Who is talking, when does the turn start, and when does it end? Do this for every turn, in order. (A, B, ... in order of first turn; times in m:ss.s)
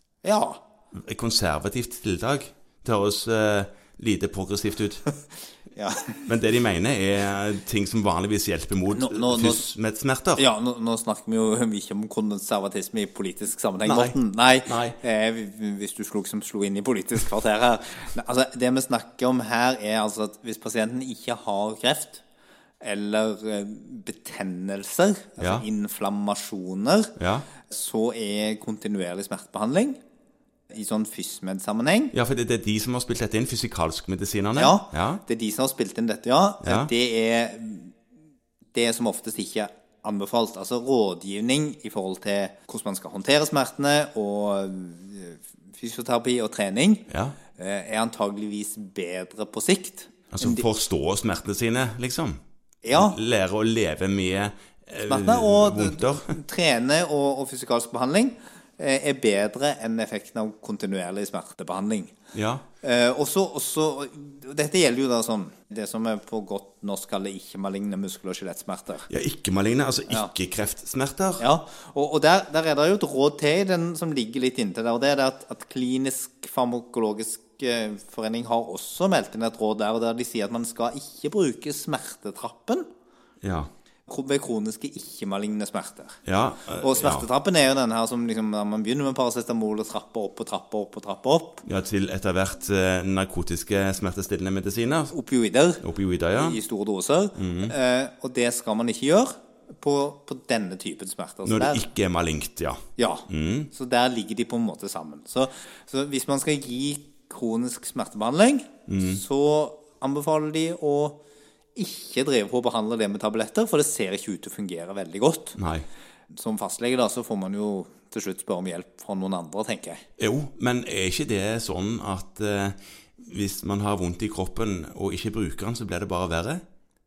0:00.2-0:00.6 A
0:00.9-0:05.0 B
0:05.7-0:06.2 A
0:06.2-0:10.4 B
0:08.9-0:09.7 A
0:10.4-0:22.2 A
0:13.8-0:15.0 B
0:22.8-0:30.0 A
0:25.4-0:25.6 B
0:27.2-0:27.5 B
0:30.7-0:32.1 A
0:32.1-0:35.2 B
0:34.6-0:37.9 A
0:36.6-0:36.9 B
0:38.7-0:50.6 A
0:47.1-0:47.4 B
0:50.3-0:52.4 B
0:52.8-0:53.2 A
0:52.9-0:56.4 B
0:55.1-1:02.1 A
1:02.3-1:02.6 B
1:02.8-1:09.1 A
1:09.1-1:11.4 B
1:11.4-1:22.9 A
1:23.4-1:23.7 B
1:24.1-1:26.2 A
1:26.2-1:27.3 B
1:26.8-1:31.6 A
1:31.6-1:35.1 B
1:35.1-1:35.8 A
1:35.8-1:36.6 B
1:36.3-1:41.9 A
1:37.4-1:37.7 B
1:41.4-1:43.7 B
1:43.0-1:51.2 A
1:48.9-1:49.2 B
1:51.7-1:55.6 A
1:55.6-1:55.8 B
1:56.3-2:00.0 A
2:00.2-2:06.6 B